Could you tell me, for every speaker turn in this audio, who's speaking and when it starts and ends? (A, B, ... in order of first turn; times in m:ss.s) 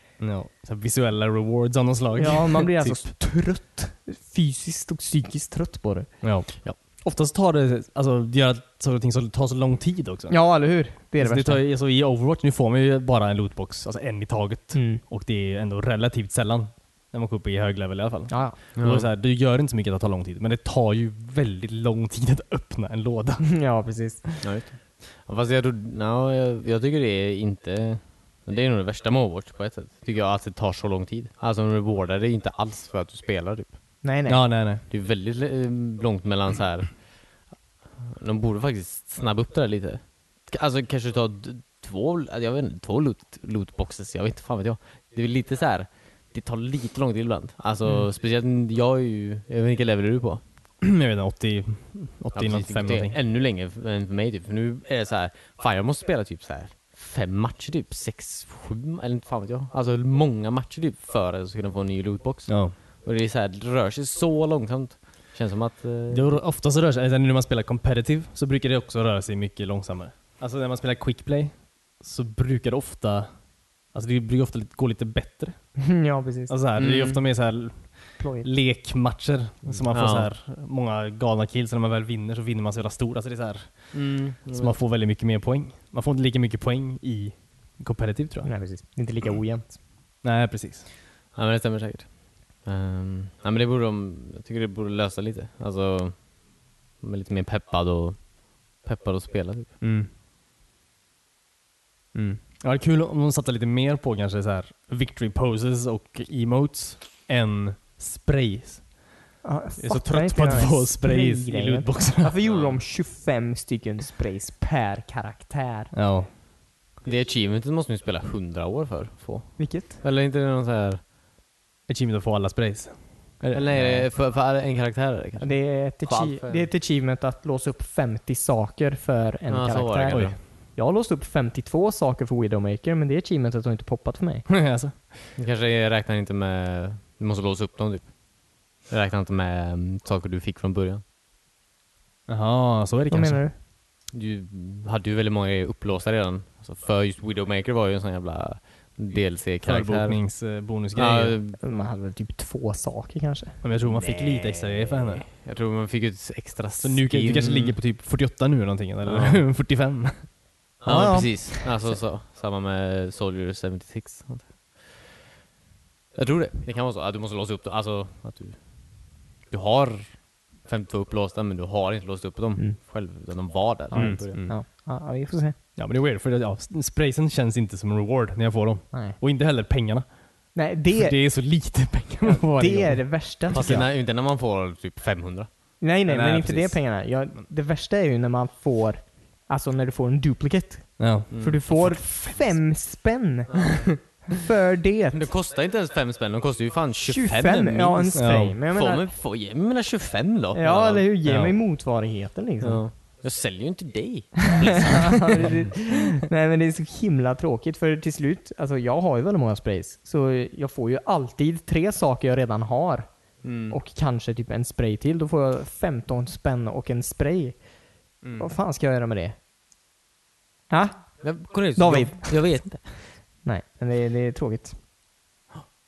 0:00.2-0:03.1 A
0:02.2-0:06.4 B
0:06.2-0:10.5 A
0:10.3-0:11.6 B
0:11.2-0:23.6 A
0:14.7-0:15.0 B
0:18.3-0:18.6 B
0:18.7-0:19.1 C
0:23.4-0:24.4 B
0:24.4-0:33.8 C
0:34.0-0:34.5 B
0:34.3-0:34.8 A
0:34.8-0:50.4 C
0:50.8-0:53.2 A
0:52.3-1:06.4 C
1:02.5-1:02.8 A
1:06.1-1:15.8 A
1:15.8-1:16.6 B
1:16.5-1:28.5 A
1:16.8-1:17.2 C
1:18.2-1:18.5 B
1:19.8-1:20.3 C
1:23.9-1:24.8 C
1:28.4-1:29.8 B
1:30.2-1:30.9 A
1:31.3-1:39.7 C
1:39.8-1:40.1 A
1:42.1-1:49.0 A
1:49.4-1:55.9 B
1:49.8-1:52.3 A
1:52.4-1:52.8 C
1:55.9-1:56.3 A
1:57.0-2:01.0 C
1:59.6-2:00.0 B
2:01.9-2:04.1 A
2:03.5-2:06.7 C
2:05.4-2:14.5 B
2:09.5-2:10.4 C
2:10.1-2:10.4 A
2:14.5-2:15.0 A
2:15.3-2:21.0 C
2:22.3-2:23.4 A
2:23.1-2:23.6 B
2:24.1-2:31.6 C
2:29.6-2:31.4 A
2:31.6-2:33.6 B
2:33.6-2:35.3 A
2:33.8-2:37.8 C
2:36.8-2:40.3 A
2:39.0-2:39.4 C
2:40.8-2:45.1 C
2:40.8-2:41.9 B
2:46.1-2:54.4 C
2:53.9-2:55.6 B
2:53.9-2:54.5 A
2:55.8-3:03.9 A
2:58.9-2:59.2 B
3:00.5-3:01.7 B
3:02.3-3:03.8 B
3:03.4-3:05.5 C
3:05.8-3:15.3 B
3:06.1-3:07.4 A
3:11.0-3:12.6 A
3:11.3-3:11.9 C
3:13.5-3:13.9 C
3:15.1-3:21.0 C
3:17.0-3:19.1 B
3:18.1-3:18.6 A
3:20.5-3:22.9 B
3:21.2-3:21.5 A
3:22.6-3:25.7 C
3:24.8-3:39.4 B
3:33.4-3:33.8 C
3:38.2-3:38.5 A
3:40.7-3:44.8 B
3:41.2-3:43.0 C